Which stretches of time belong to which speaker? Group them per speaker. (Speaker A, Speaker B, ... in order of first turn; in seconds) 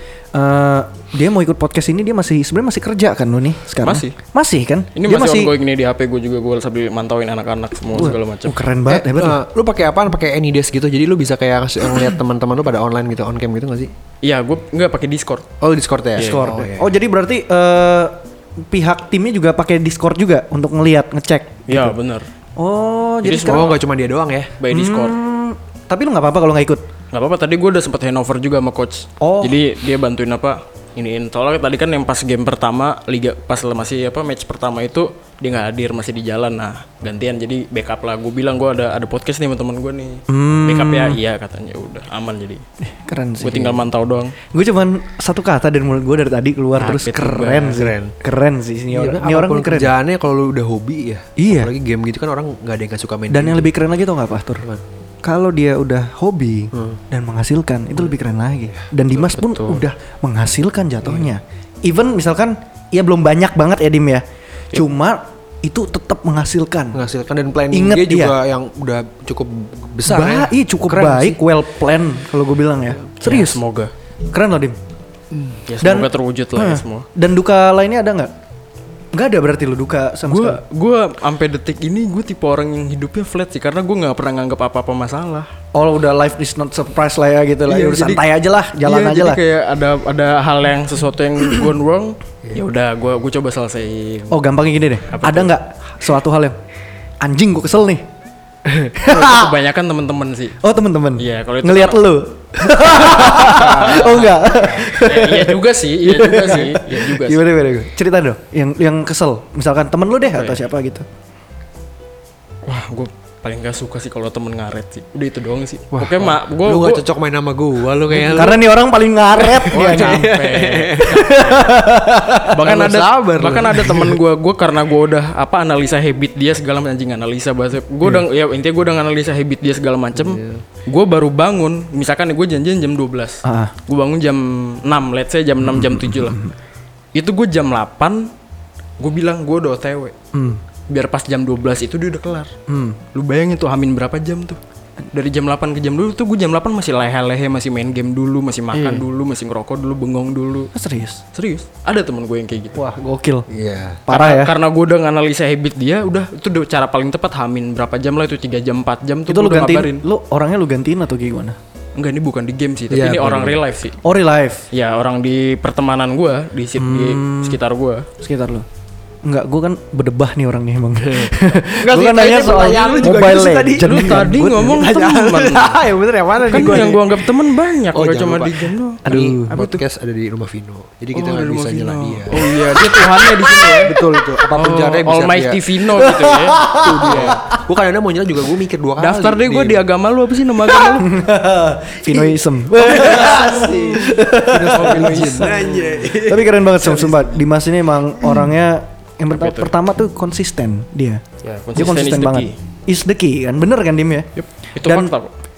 Speaker A: 0.3-5.5, 7.9-9.4, 16.2-22.0, 22.6-23.8, 24.7-26.8, 29.2-29.6, 40.3-41.2, 42.8-43.9, 44.5-50.0, 51.4-51.7, 53.3-54.6, 55.2-67.0, 67.7-68.4, 70.0-73.6, 74.3-74.8, 75.8-78.3, 79.1-80.6, 85.7-89.4, 94.3-96.5, 97.2-98.0, 99.0-99.5, 100.6-111.0, 118.1-120.3, 121.1-122.6, 133.4-133.7, 135.6-136.5, 140.3-140.6, 142.7-143.0, 150.7-151.2, 152.8-153.5, 154.1-154.5, 159.3-161.6, 164.0-164.7, 166.8-167.6, 168.2-168.7, 169.2-174.9, 179.0-179.5, 186.1-187.4, 190.9-201.2, 201.7-204.3, 204.8-205.1
Speaker B: 3.8-4.2, 4.9-8.6, 14.2-15.5, 16.2-16.5, 21.7-22.3, 23.2-23.8, 24.6-25.2, 27.1-42.6, 43.4-44.4, 46.8-47.8, 59.1-59.8, 73.2-73.9, 75.7-77.0, 80.2-85.5, 87.7-88.2, 88.8-94.4, 95.0-95.5, 99.0-100.6, 101.2-102.1, 102.8-107.4, 110.3-110.6, 112.6-117.0, 119.7-121.8, 122.5-136.4, 137.1-138.3, 139.0-140.1, 140.9-142.5, 143.1-144.6, 145.1-150.7, 151.3-152.8, 154.1-160.0, 162.0-164.0, 164.7-168.1, 173.8-175.8, 176.5-179.8, 181.1-183.9, 184.5-187.4, 189.0-191.2, 194.6-196.0, 199.3-199.7, 201.4-202.5, 204.4-205.3
Speaker C: 8.9-13.9, 15.6-16.9, 23.4-24.5, 47.7-48.1, 48.9-53.7, 56.7-57.0, 66.9-71.4, 75.3-75.6, 115.9-118.7, 119.3-121.5, 122.6-124.2, 130.2-130.6, 153.5-154.0, 162.9-163.6, 171.0-177.3, 177.9-185.7, 186.8-189.8, 192.1-197.4